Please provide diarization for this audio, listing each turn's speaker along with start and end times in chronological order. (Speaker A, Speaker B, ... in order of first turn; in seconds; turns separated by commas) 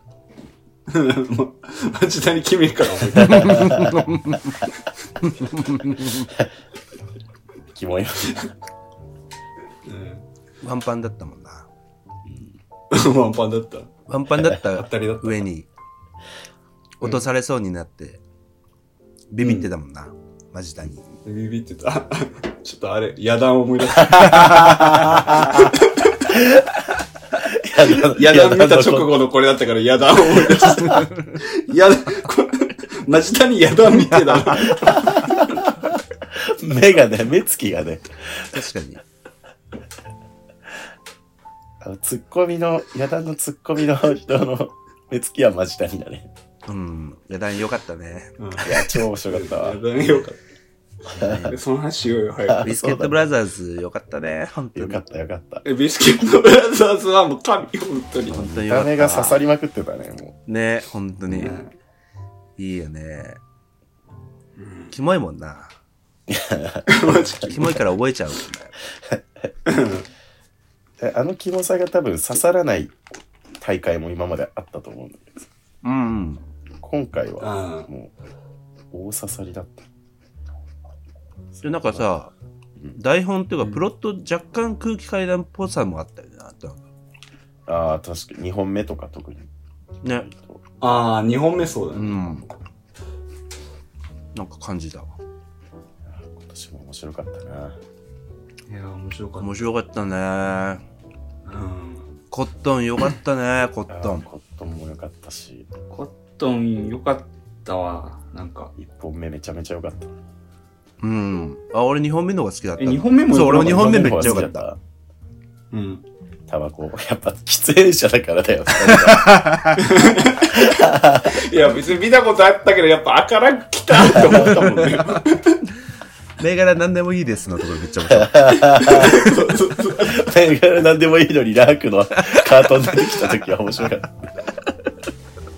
Speaker A: 0.9-3.7, Speaker B: 3.2-4.6, Speaker C: 3.2-4.0, Speaker B: 5.2-6.3, Speaker C: 7.7-8.5, Speaker A: 9.8-10.2, Speaker B: 10.6-11.7, Speaker C: 12.2-12.6, Speaker A: 12.9-13.9, Speaker B: 14.1-15.7, Speaker A: 14.6-15.4, Speaker B: 17.0-18.2, Speaker B: 19.3-21.1, Speaker A: 19.4-19.7, Speaker A: 21.2-26.2, Speaker C: 24.1-25.6, Speaker B: 24.2-24.9, Speaker C: 26.3-26.8, Speaker C: 27.3-29.2, Speaker A: 28.0-35.5, Speaker B: 30.9-31.3, Speaker B: 34.1-35.0, Speaker C: 35.1-35.4, Speaker C: 36.2-38.6, Speaker B: 38.5-39.0, Speaker C: 41.8-46.3, Speaker B: 46.7-48.3, Speaker A: 48.4-50.4, Speaker C: 48.6-49.8, Speaker C: 51.1-51.5, Speaker B: 51.1-51.6, Speaker A: 51.5-52.7, Speaker C: 52.4-53.2, Speaker B: 52.6-55.0, Speaker C: 54.7-55.6, Speaker A: 55.6-58.4, Speaker C: 58.3-60.4, Speaker B: 58.3-59.4, Speaker B: 60.5-61.6, Speaker A: 61.3-61.7, Speaker B: 62.6-63.4, Speaker A: 64.5-64.9, Speaker B: 64.9-65.7, Speaker C: 66.3-67.5, Speaker A: 66.9-67.8, Speaker B: 67.5-68.7, Speaker C: 69.1-69.5, Speaker A: 69.7-70.0, Speaker C: 71.0-72.9, Speaker C: 73.6-75.5, Speaker B: 75.8-76.4, Speaker C: 76.8-78.1, Speaker A: 77.4-77.9, Speaker C: 78.9-79.9, Speaker C: 81.5-82.1, Speaker B: 81.6-82.3, Speaker B: 82.9-86.9, Speaker C: 87.7-89.5, Speaker B: 90.0-90.3, Speaker C: 90.1-90.6, Speaker A: 90.8-92.2, Speaker B: 91.9-92.5, Speaker B: 94.3-95.1, Speaker C: 96.0-97.8, Speaker A: 98.7-99.7, Speaker B: 99.4-100.8, Speaker A: 101.5-102.1, Speaker B: 102.3-104.2, Speaker C: 103.9-105.7, Speaker A: 105.9-108.7, Speaker C: 108.8-110.1, Speaker B: 111.0-114.6, Speaker A: 112.8-114.5, Speaker C: 113.5-114.8, Speaker A: 115.7-116.0, Speaker C: 116.5-119.4, Speaker B: 118.8-119.8, Speaker A: 119.8-125.6, Speaker C: 120.4-121.4, Speaker C: 124.1-124.9, Speaker B: 126.4-129.0, Speaker C: 128.1-129.2, Speaker A: 128.8-130.3, Speaker C: 130.0-134.3